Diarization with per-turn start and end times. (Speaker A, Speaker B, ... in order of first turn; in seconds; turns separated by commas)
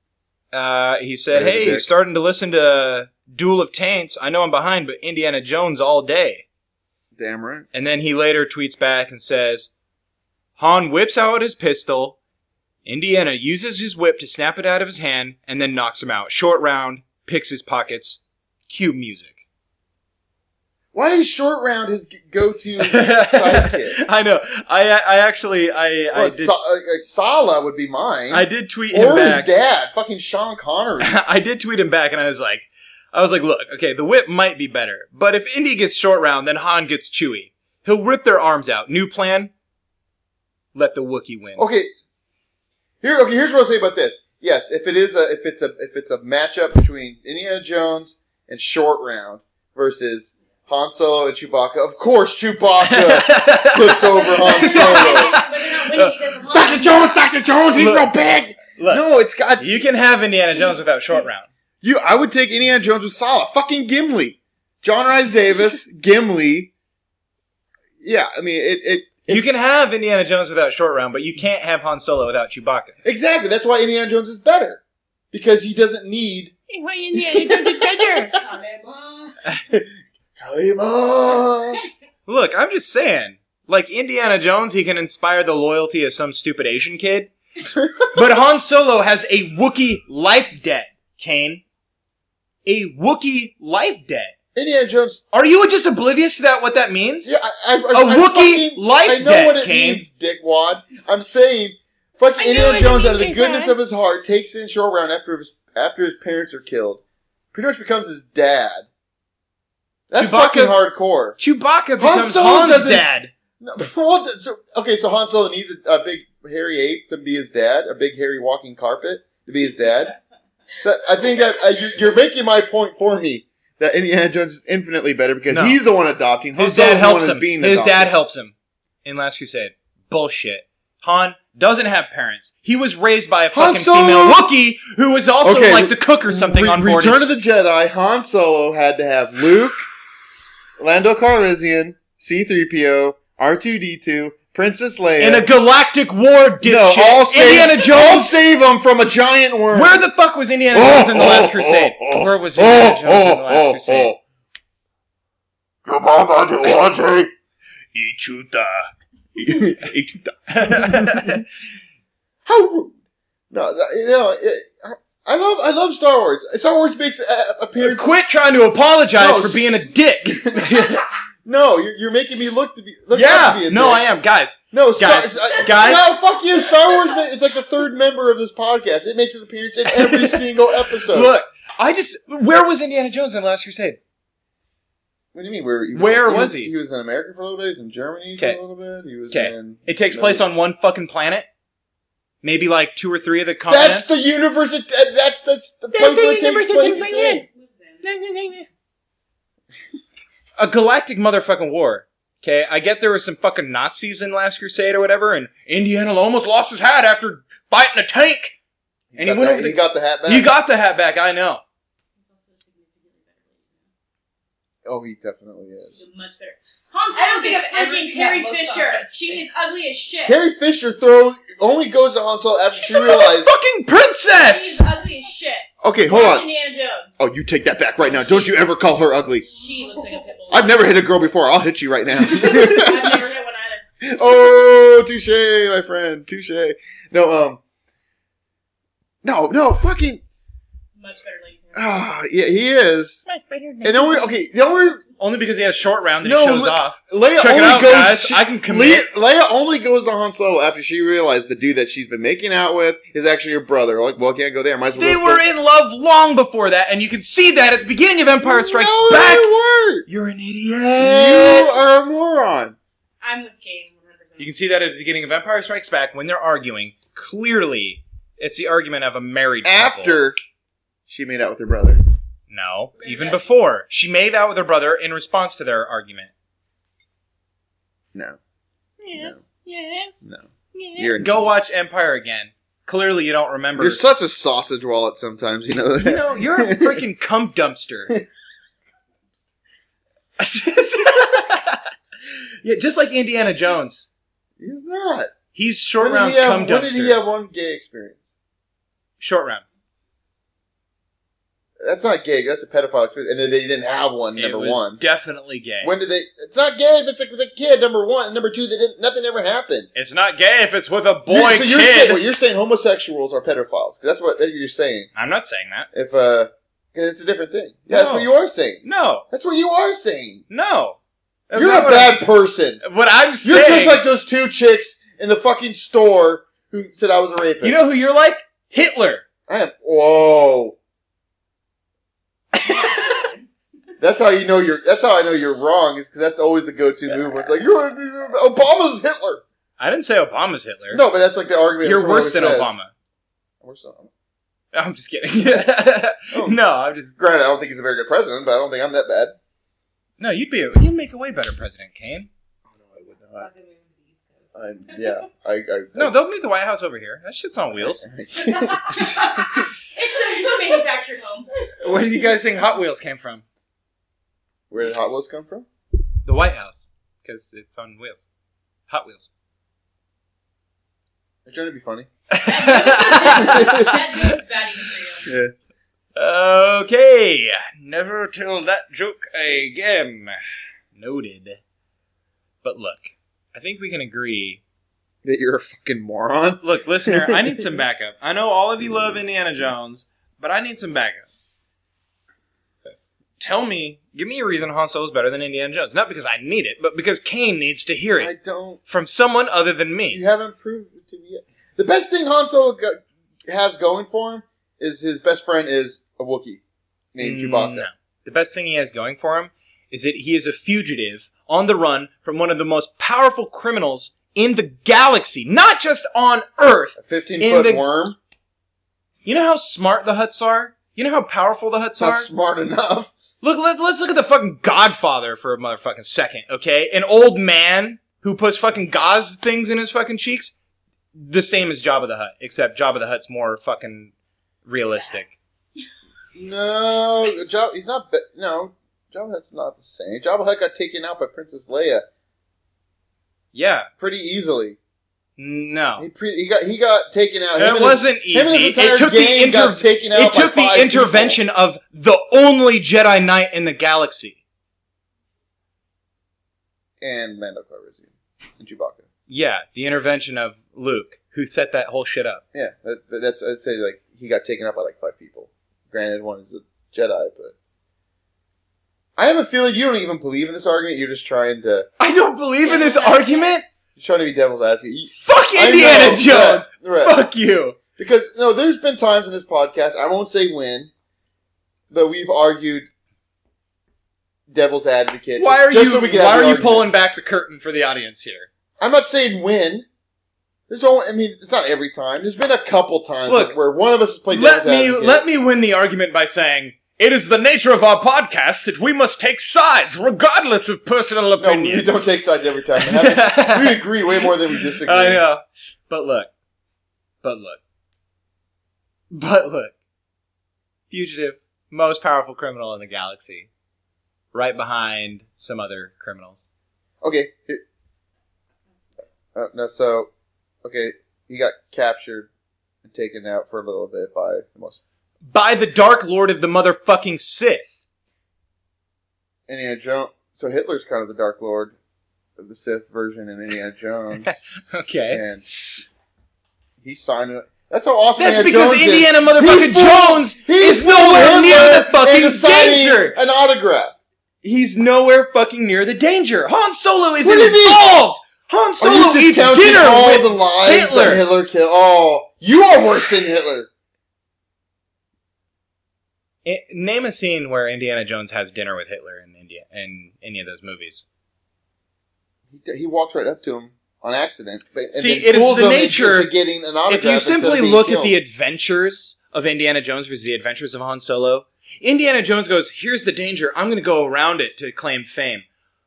Speaker A: 0.5-6.4, Speaker B: 1.3-1.9, Speaker B: 7.1-7.7, Speaker A: 7.7-9.7, Speaker A: 10.6-12.2, Speaker A: 12.8-19.4, Speaker B: 20.9-24.0, Speaker A: 22.8-26.5, Speaker B: 26.1-31.1, Speaker A: 28.3-29.5, Speaker A: 31.0-39.5, Speaker A: 40.7-41.6, Speaker B: 41.6-41.9, Speaker B: 43.0-55.3, Speaker A: 52.8-56.4, Speaker C: 54.3-57.1, Speaker B: 56.5-59.7, Speaker A: 57.7-59.0, Speaker A: 59.6-61.5, Speaker B: 61.8-66.7, Speaker B: 68.0-69.4, Speaker A: 69.3-73.0, Speaker B: 73.0-74.8, Speaker B: 75.3-76.5, Speaker A: 76.7-78.3, Speaker B: 77.1-78.4, Speaker C: 78.3-79.3, Speaker B: 79.7-81.8, Speaker A: 82.2-87.3, Speaker B: 87.8-88.1, Speaker A: 88.1-91.6, Speaker A: 92.6-94.3, Speaker B: 94.5-95.2, Speaker A: 95.3-97.4, Speaker B: 97.2-107.0, Speaker A: 97.9-100.0, Speaker A: 102.3-103.7, Speaker B: 107.5-108.9, Speaker B: 110.1-111.4, Speaker A: 110.2-110.8, Speaker A: 111.4-113.3, Speaker B: 112.0-113.0, Speaker B: 113.6-120.1, Speaker B: 120.8-128.1, Speaker A: 125.5-125.8, Speaker A: 126.6-137.3, Speaker B: 133.5-134.4, Speaker B: 135.4-139.8, Speaker B: 140.8-145.4, Speaker A: 145.2-148.3, Speaker B: 146.6-150.1, Speaker A: 149.7-154.1, Speaker B: 150.7-154.2, Speaker B: 155.8-157.3, Speaker A: 157.9-158.8, Speaker B: 159.3-161.4, Speaker A: 160.5-161.4, Speaker B: 162.4-163.0, Speaker B: 163.5-168.1, Speaker A: 167.8-171.0, Speaker B: 169.2-174.0, Speaker A: 173.1-176.1, Speaker B: 174.7-181.3, Speaker A: 179.9-184.0, Speaker B: 185.3-190.4, Speaker A: 185.9-186.7, Speaker A: 189.3-191.5, Speaker A: 192.4-194.1, Speaker B: 193.7-197.4, Speaker A: 195.9-197.4, Speaker C: 197.2-198.0, Speaker A: 198.0-198.7, Speaker A: 200.6-208.6, Speaker B: 209.1-210.5, Speaker A: 209.2-211.6, Speaker C: 212.2-213.8, Speaker B: 214.8-216.0, Speaker C: 215.9-220.4, Speaker D: 217.1-219.4, Speaker B: 220.2-223.5, Speaker A: 222.8-224.8, Speaker C: 224.3-227.2, Speaker B: 225.8-226.4, Speaker B: 227.2-229.5, Speaker C: 228.0-228.6, Speaker C: 229.5-230.8, Speaker B: 230.5-233.2, Speaker A: 232.1-233.3, Speaker C: 232.3-233.9, Speaker B: 234.0-237.6, Speaker B: 239.2-240.2, Speaker C: 241.0-242.0, Speaker B: 241.7-243.2, Speaker A: 243.2-244.3, Speaker B: 243.8-245.0, Speaker A: 245.2-249.0, Speaker B: 246.2-255.4, Speaker A: 254.9-259.5, Speaker B: 258.4-260.1, Speaker A: 260.1-261.8, Speaker B: 261.0-262.8, Speaker C: 263.2-264.6, Speaker A: 264.4-270.2, Speaker B: 269.6-270.4, Speaker B: 271.1-272.0, Speaker A: 272.5-276.3, Speaker C: 273.0-273.4, Speaker A: 279.0-280.2, Speaker B: 279.1-279.4, Speaker B: 280.2-281.4, Speaker A: 280.7-284.0, Speaker B: 283.8-287.0, Speaker A: 286.0-288.1, Speaker A: 290.4-291.9, Speaker A: 292.6-294.1, Speaker B: 294.6-295.3, Speaker A: 295.5-297.2, Speaker B: 296.0-298.2, Speaker A: 299.2-299.6, Speaker B: 301.8-305.0, Speaker A: 304.4-305.9, Speaker B: 305.8-309.9, Speaker A: 309.9-312.2, Speaker B: 311.3-315.1, Speaker A: 315.1-315.9, Speaker B: 315.9-320.4, Speaker A: 317.9-318.3, Speaker A: 318.8-319.3, Speaker A: 320.5-321.0, Speaker A: 321.5-322.2, Speaker B: 321.5-322.8, Speaker A: 322.8-324.0, Speaker B: 323.4-327.8, Speaker A: 327.6-329.2, Speaker B: 329.5-330.8, Speaker A: 332.5-333.1, Speaker B: 334.0-339.4, Speaker A: 337.1-337.5, Speaker A: 339.8-341.0, Speaker B: 340.9-342.7, Speaker A: 341.8-342.9, Speaker B: 343.6-344.1, Speaker A: 344.7-347.1, Speaker B: 346.3-346.6, Speaker B: 347.2-349.4, Speaker A: 350.2-352.3, Speaker B: 352.7-353.5, Speaker D: 353.3-355.1, Speaker B: 354.5-356.1, Speaker A: 355.9-358.1, Speaker B: 357.8-359.6, Speaker C: 359.0-361.5, Speaker A: 361.8-363.4, Speaker B: 364.7-365.6, Speaker A: 366.2-368.3, Speaker A: 368.9-369.3, Speaker B: 371.4-372.1, Speaker A: 372.3-374.4, Speaker C: 372.4-375.3, Speaker B: 373.4-374.0, Speaker B: 375.2-375.5, Speaker A: 376.1-380.4, Speaker A: 380.9-381.6, Speaker A: 382.6-384.6, Speaker B: 385.2-387.8, Speaker A: 386.6-391.3, Speaker A: 393.4-398.3, Speaker B: 398.2-398.8, Speaker A: 398.9-400.2, Speaker B: 400.1-406.6, Speaker B: 407.1-407.9, Speaker A: 407.2-417.8, Speaker B: 417.0-418.2, Speaker A: 419.2-422.3, Speaker B: 422.0-423.1, Speaker A: 423.4-430.5, Speaker A: 431.1-434.1, Speaker A: 434.6-435.4, Speaker B: 436.3-442.0, Speaker A: 443.5-443.9, Speaker B: 444.0-444.8, Speaker A: 445.4-446.1, Speaker B: 446.0-451.4, Speaker A: 447.6-454.4, Speaker B: 457.0-459.0, Speaker A: 459.3-462.4, Speaker B: 462.5-467.5, Speaker B: 469.2-471.9, Speaker A: 472.0-473.6, Speaker C: 472.6-473.6, Speaker B: 474.0-477.2, Speaker A: 475.1-477.8, Speaker B: 477.9-480.9, Speaker B: 481.9-482.9, Speaker B: 484.5-486.9, Speaker A: 485.4-488.5, Speaker B: 488.8-489.9, Speaker B: 490.7-495.2, Speaker A: 493.3-493.6, Speaker A: 494.3-502.1, Speaker B: 501.4-505.2, Speaker A: 502.8-506.3, Speaker A: 507.2-507.6, Speaker A: 509.1-509.7, Speaker A: 510.9-513.5, Speaker A: 514.3-516.5, Speaker B: 517.0-517.6, Speaker B: 519.3-520.1, Speaker B: 520.6-522.3, Speaker B: 522.8-524.8, Speaker A: 525.3-527.7, Speaker B: 529.5-531.7, Speaker B: 532.4-534.4, Speaker A: 534.2-535.2, Speaker B: 535.1-535.4, Speaker B: 536.8-544.0, Speaker A: 538.2-543.1, Speaker A: 544.4-551.2, Speaker B: 547.2-547.9, Speaker B: 548.8-553.7, Speaker A: 556.4-561.0, Speaker B: 562.5-568.1, Speaker A: 564.9-566.3, Speaker A: 566.9-575.4